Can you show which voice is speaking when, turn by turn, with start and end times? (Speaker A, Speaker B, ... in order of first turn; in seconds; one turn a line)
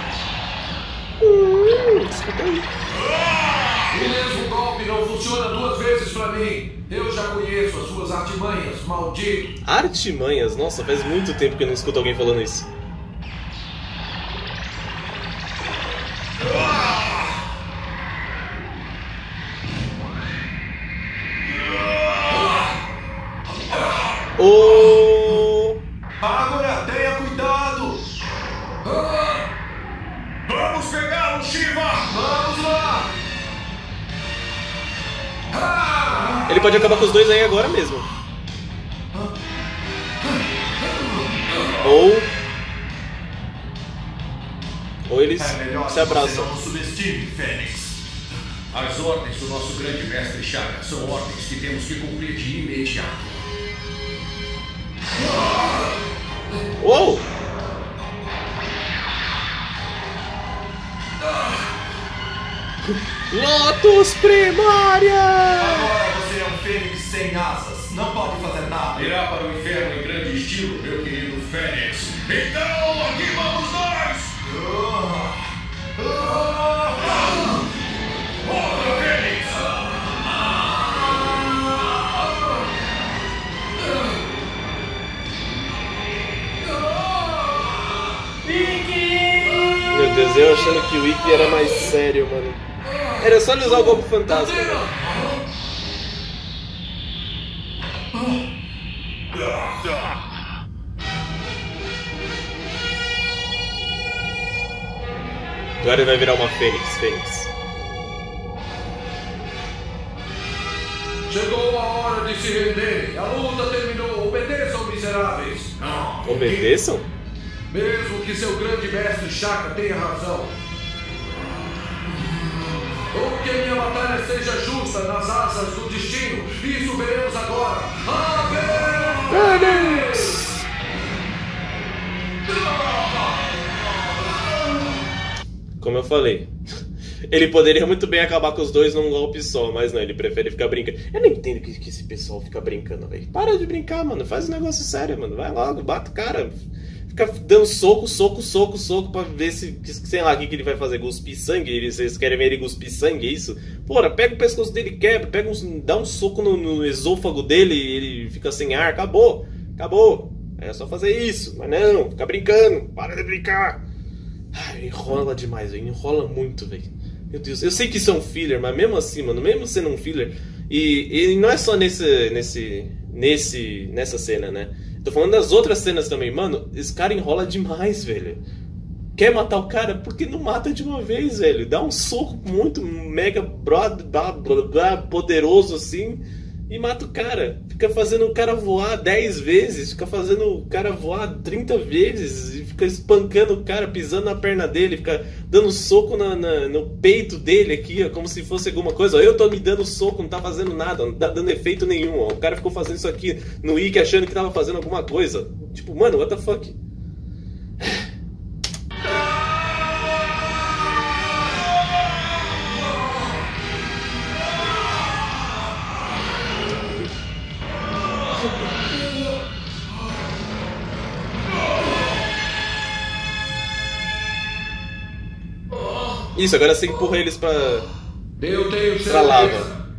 Speaker A: 1.2-2.7
Speaker B: 3.0-3.8
Speaker C: 3.9-9.5
Speaker A: 9.7-12.7
Speaker B: 21.8-22.5
Speaker A: 24.4-25.8
Speaker D: 26.2-28.0
Speaker C: 28.8-29.4
Speaker B: 30.5-32.1
Speaker C: 32.1-33.1
Speaker C: 35.5-36.5
Speaker D: 36.1-36.4
Speaker A: 36.5-38.1
Speaker A: 41.8-42.3
Speaker A: 45.1-46.5
Speaker D: 45.4-48.0
Speaker B: 48.7-53.4
Speaker A: 56.8-57.2
Speaker A: 63.3-65.9
Speaker D: 65.6-69.1
Speaker B: 68.9-74.3
Speaker D: 74.4-77.3
Speaker B: 77.0-77.3
Speaker B: 78.4-79.9
Speaker C: 86.6-87.7
Speaker C: 89.5-89.8
Speaker A: 89.9-92.6
Speaker C: 92.8-95.4
Speaker A: 93.2-94.9
Speaker A: 105.8-107.5
Speaker C: 111.3-115.8
Speaker B: 115.8-116.7
Speaker A: 116.2-117.1
Speaker C: 117.7-120.6
Speaker C: 123.1-130.4
Speaker A: 129.3-130.6
Speaker C: 132.5-133.1
Speaker A: 135.8-136.5
Speaker A: 137.3-163.8
Speaker A: 164.5-178.4
Speaker A: 179.2-206.8
Speaker A: 226.3-227.9
Speaker C: 228.4-229.7
Speaker A: 229.1-229.7